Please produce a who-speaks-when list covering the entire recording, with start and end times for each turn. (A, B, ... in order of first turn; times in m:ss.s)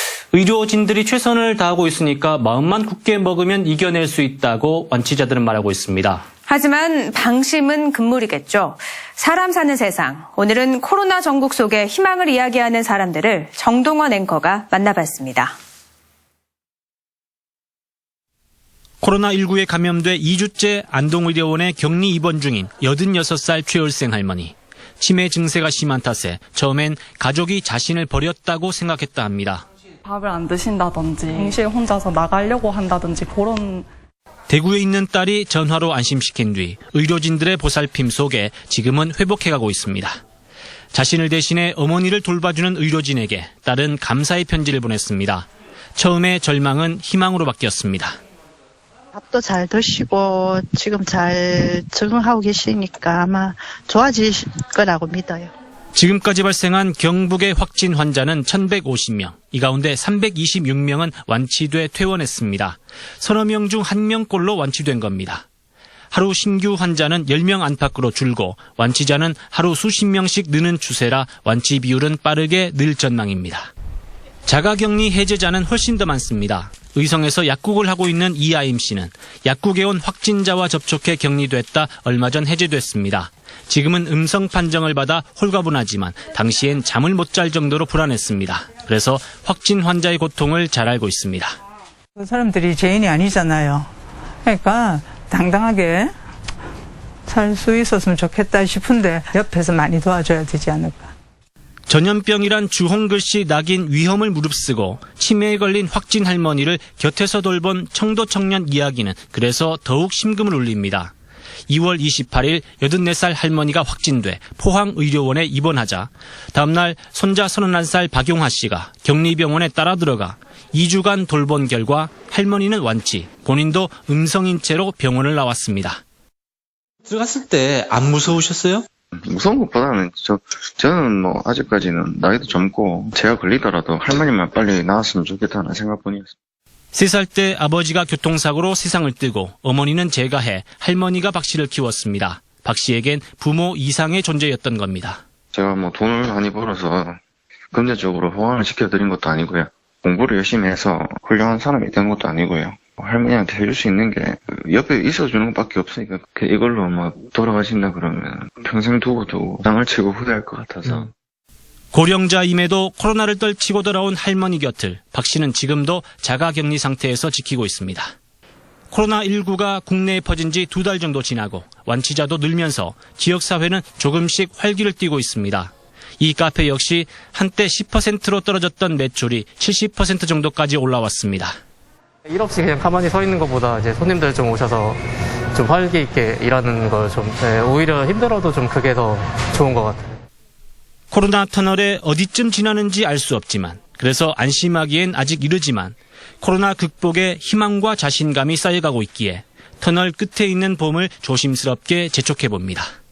0:00.3-0:06.2 A
0:06.5-0:15.5 B
0:19.0-0:29.6 A
0:30.0-0:33.8 C
0:34.5-0:40.1 A
0:40.9-0:48.2 A
0:49.1-0:55.5 D
0:55.9-1:05.4 A
1:06.1-1:13.7 A
1:14.5-1:31.5 A
1:32.2-1:33.9 E
1:34.4-1:36.1 E
1:37.3-1:41.1 E
1:41.9-1:51.1 A
1:51.7-2:06.0 A
2:07.1-2:08.8 A
2:09.2-2:16.3 F
2:16.9-2:25.2 A
2:25.5-2:27.2 F
2:27.7-2:41.1 F
2:41.9-2:48.1 A
2:48.9-3:01.6 A
3:02.3-3:05.0 G
3:05.5-3:10.2 G
3:11.1-3:22.9 A